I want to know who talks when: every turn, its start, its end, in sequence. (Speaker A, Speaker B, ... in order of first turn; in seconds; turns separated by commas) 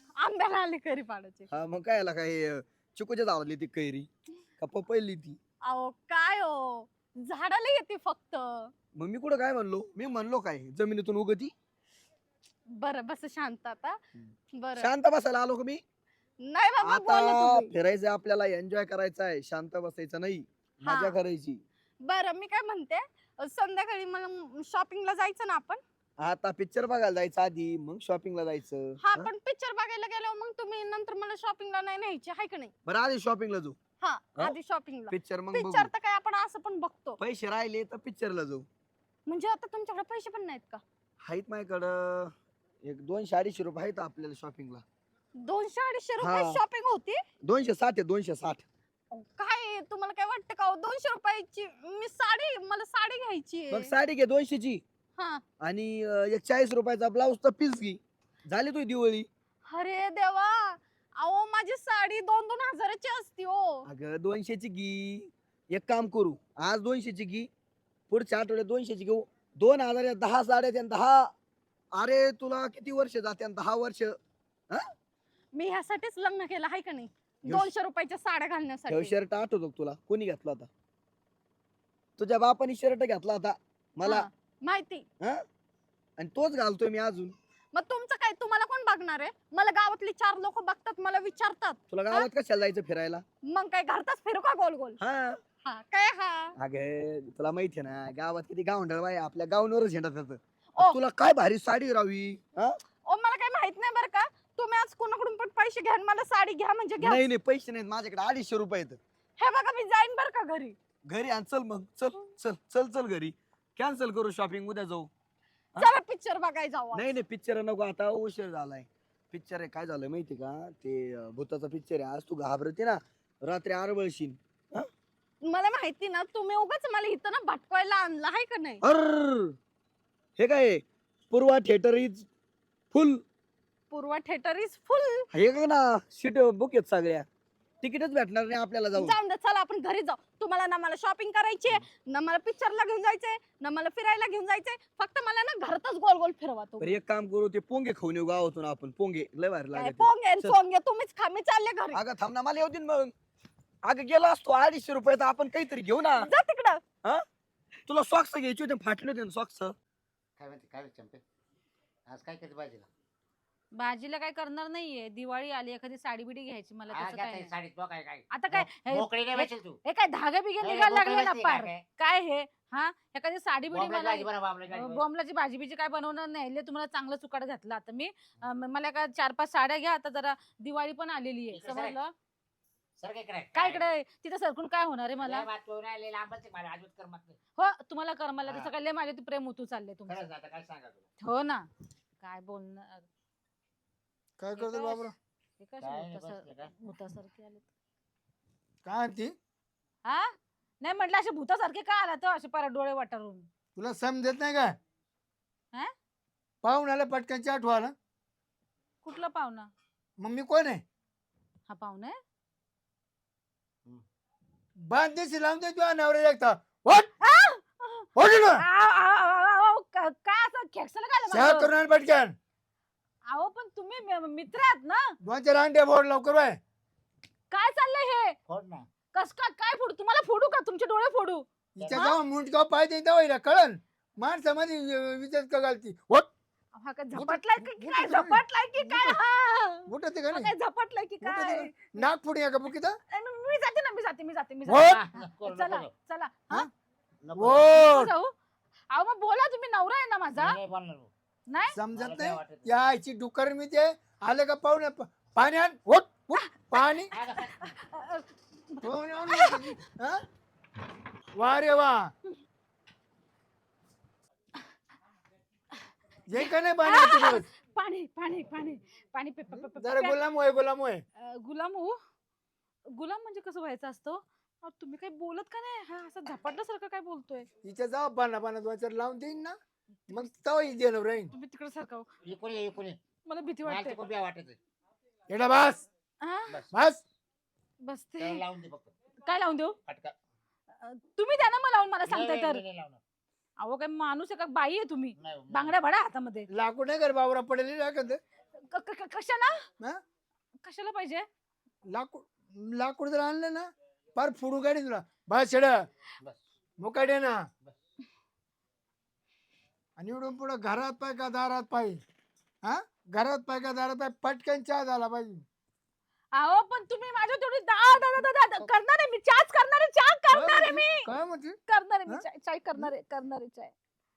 Speaker A: 0.2-1.5, Speaker B: 1.5-4.1, Speaker B: 4.6-5.4, Speaker A: 5.6-8.7, Speaker B: 8.9-11.5, Speaker A: 12.7-14.0, Speaker A: 14.5-14.9, Speaker B: 14.8-15.8, Speaker A: 16.4-17.7, Speaker B: 16.8-21.6, Speaker A: 20.8-21.2, Speaker A: 22.0-25.8, Speaker B: 26.2-29.3, Speaker A: 29.0-32.7, Speaker B: 32.9-33.8, Speaker A: 34.0-37.2, Speaker B: 35.1-35.9, Speaker B: 37.2-38.7, Speaker A: 39.3-40.8, Speaker B: 41.2-42.3, Speaker B: 42.9-44.8, Speaker A: 45.4-47.2, Speaker B: 46.2-46.6, Speaker B: 47.4-48.7, Speaker A: 49.1-53.9, Speaker B: 53.7-54.8, Speaker B: 55.6-59.3, Speaker A: 59.7-63.9, Speaker B: 63.9-67.5, Speaker B: 68.1-71.3, Speaker B: 72.0-74.2, Speaker A: 75.5-79.1, Speaker B: 78.9-80.7, Speaker B: 82.2-84.2, Speaker A: 84.0-85.0, Speaker B: 86.2-87.4, Speaker A: 87.7-92.3, Speaker B: 91.9-93.2, Speaker A: 93.5-95.0, Speaker B: 95.0-95.4, Speaker A: 95.6-96.5, Speaker B: 96.5-102.8, Speaker A: 103.1-107.2, Speaker B: 107.2-109.0, Speaker A: 109.4-110.8, Speaker B: 111.1-115.1, Speaker A: 115.8-117.1, Speaker B: 117.0-124.9, Speaker A: 125.4-128.8, Speaker B: 128.8-129.6, Speaker B: 130.4-132.3, Speaker B: 132.9-133.2, Speaker A: 133.9-135.3, Speaker B: 135.3-137.3, Speaker B: 137.8-139.2, Speaker A: 138.9-147.0, Speaker B: 146.8-150.6, Speaker A: 149.7-152.0, Speaker B: 151.9-153.1, Speaker B: 153.8-156.3, Speaker A: 156.2-156.8, Speaker B: 157.9-159.8, Speaker C: 160.4-161.2, Speaker C: 162.1-162.9, Speaker D: 163.7-167.5, Speaker C: 166.9-169.8, Speaker D: 168.3-182.1, Speaker C: 170.6-171.8, Speaker C: 173.7-175.1, Speaker C: 181.5-182.0, Speaker C: 183.0-183.9, Speaker D: 183.5-185.5, Speaker C: 185.2-187.4, Speaker D: 187.6-190.3, Speaker C: 188.4-188.7, Speaker C: 190.1-191.1, Speaker D: 191.2-191.7, Speaker D: 192.2-193.1, Speaker E: 194.4-195.2, Speaker D: 194.6-197.7, Speaker C: 195.8-196.7, Speaker E: 198.8-199.3, Speaker D: 200.0-203.5, Speaker E: 203.8-204.7, Speaker E: 206.6-207.9, Speaker D: 209.0-209.7, Speaker E: 210.2-210.8, Speaker D: 211.7-212.2, Speaker E: 214.8-217.1, Speaker D: 217.2-221.7, Speaker E: 218.2-218.7, Speaker E: 221.3-222.3, Speaker D: 223.3-225.2, Speaker E: 225.2-226.6, Speaker D: 227.5-228.4, Speaker C: 228.5-228.9, Speaker D: 229.1-232.2, Speaker E: 231.8-236.3, Speaker D: 236.7-241.8, Speaker E: 237.1-239.2, Speaker E: 239.9-240.5, Speaker E: 241.2-243.0, Speaker D: 243.1-246.7, Speaker E: 244.7-245.0, Speaker C: 244.9-245.9, Speaker C: 247.2-247.7, Speaker E: 247.3-248.1, Speaker D: 247.6-248.3, Speaker D: 248.9-250.6, Speaker C: 250.4-251.1, Speaker D: 251.5-251.8, Speaker E: 251.7-257.1, Speaker C: 251.9-252.7, Speaker D: 256.3-256.8, Speaker C: 257.1-257.7, Speaker D: 257.4-259.8, Speaker E: 258.8-260.2, Speaker E: 261.4-262.1, Speaker E: 266.3-267.5, Speaker D: 266.4-270.2, Speaker E: 269.5-271.0, Speaker D: 271.2-272.0, Speaker D: 272.9-277.5, Speaker E: 277.6-279.6, Speaker E: 280.1-281.3, Speaker D: 281.3-282.1, Speaker C: 282.2-283.0, Speaker D: 283.3-284.0, Speaker C: 283.7-284.6, Speaker E: 285.3-285.9, Speaker D: 286.2-286.6, Speaker E: 286.7-287.0, Speaker D: 287.8-288.4, Speaker C: 288.2-288.9, Speaker D: 289.2-289.8, Speaker C: 289.9-290.1, Speaker D: 290.8-292.6, Speaker C: 292.1-293.0, Speaker D: 293.6-296.5, Speaker C: 295.2-295.8, Speaker E: 296.5-298.2, Speaker D: 298.6-299.6, Speaker D: 300.6-301.3, Speaker E: 301.9-305.8, Speaker E: 306.8-307.4, Speaker E: 310.0-312.0, Speaker E: 312.6-315.4, Speaker D: 316.3-321.1, Speaker E: 320.3-322.2, Speaker D: 321.7-323.7